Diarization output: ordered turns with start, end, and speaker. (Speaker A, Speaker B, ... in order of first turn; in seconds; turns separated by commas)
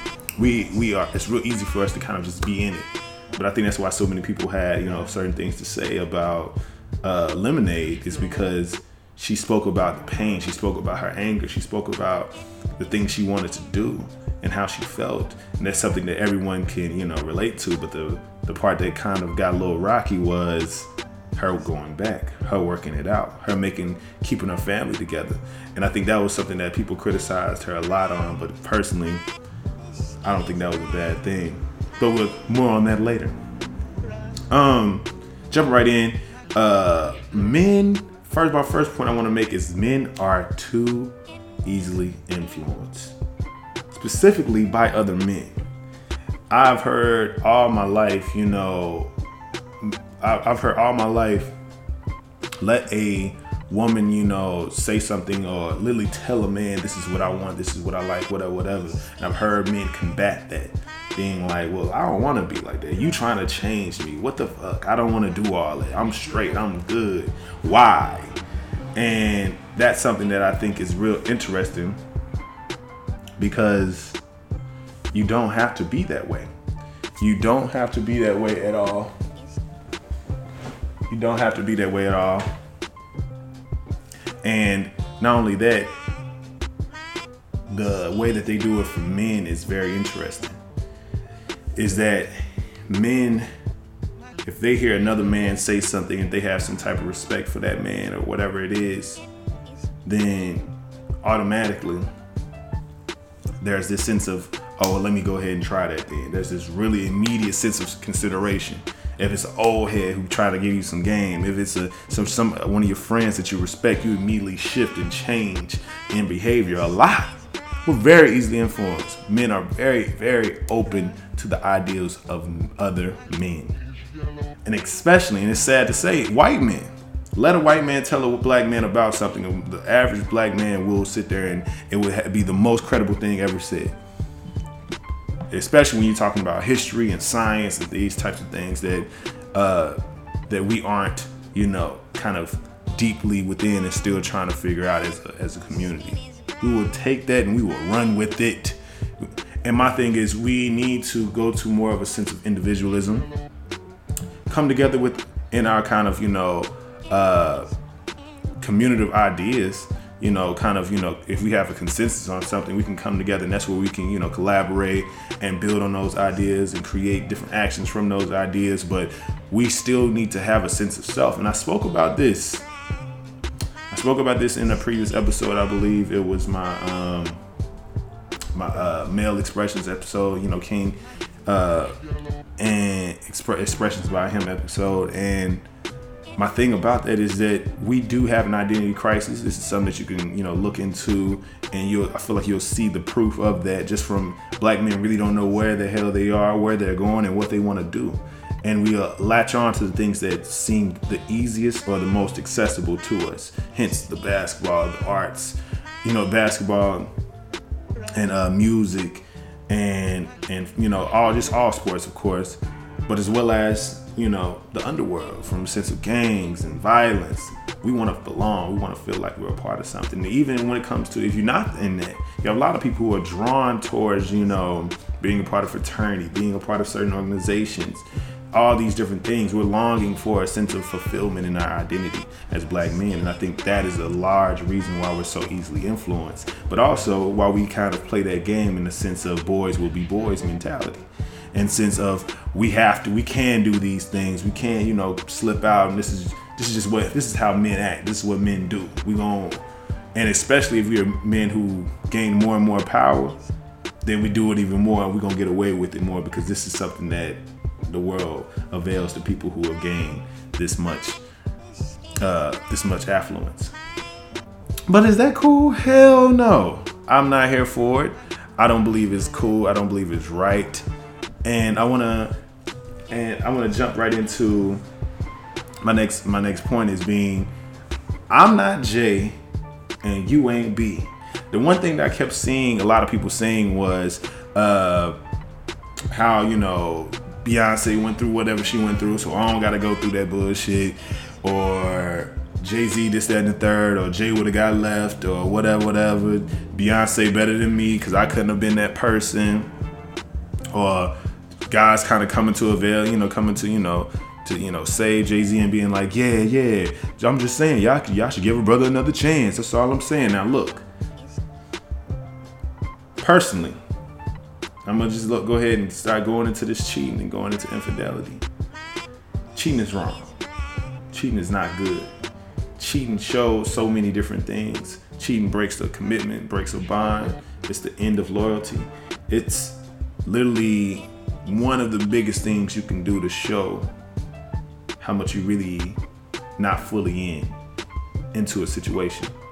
Speaker A: 0.4-29.2, Speaker A: 30.2-33.4, Speaker A: 34.5-43.1, Speaker A: 43.9-45.6, Speaker A: 46.5-49.1, Speaker A: 49.8-51.5, Speaker A: 52.6-68.4, Speaker A: 69.0-72.0, Speaker A: 73.4-74.2, Speaker A: 75.1-76.5, Speaker A: 77.2-79.1, Speaker A: 81.1-82.5, Speaker A: 84.4-85.9, Speaker A: 87.7-90.5, Speaker A: 91.8-92.3, Speaker A: 92.9-93.5, Speaker A: 94.4-99.2, Speaker A: 100.0-100.7, Speaker A: 101.2-102.0, Speaker A: 103.6-123.8, Speaker A: 124.6-133.9, Speaker A: 135.5-153.3, Speaker A: 154.5-157.7, Speaker A: 158.6-172.7, Speaker A: 173.9-177.4, Speaker A: 178.5-181.9, Speaker A: 182.6-185.6, Speaker A: 186.4-207.1, Speaker A: 208.1-249.6, Speaker A: 250.1-253.4, Speaker A: 254.0-261.2, Speaker A: 262.2-263.7, Speaker A: 264.9-270.8, Speaker A: 271.4-272.3, Speaker A: 273.1-274.8, Speaker A: 275.8-277.5, Speaker A: 278.3-279.4, Speaker A: 280.0-285.2, Speaker A: 286.1-299.7, Speaker A: 300.7-301.1, Speaker A: 301.7-310.8, Speaker A: 313.2-313.8, Speaker A: 314.8-318.4, Speaker A: 319.5-320.3, Speaker A: 321.1-322.1, Speaker A: 322.8-333.9, Speaker A: 335.0-336.0, Speaker A: 336.6-337.5, Speaker A: 338.3-339.3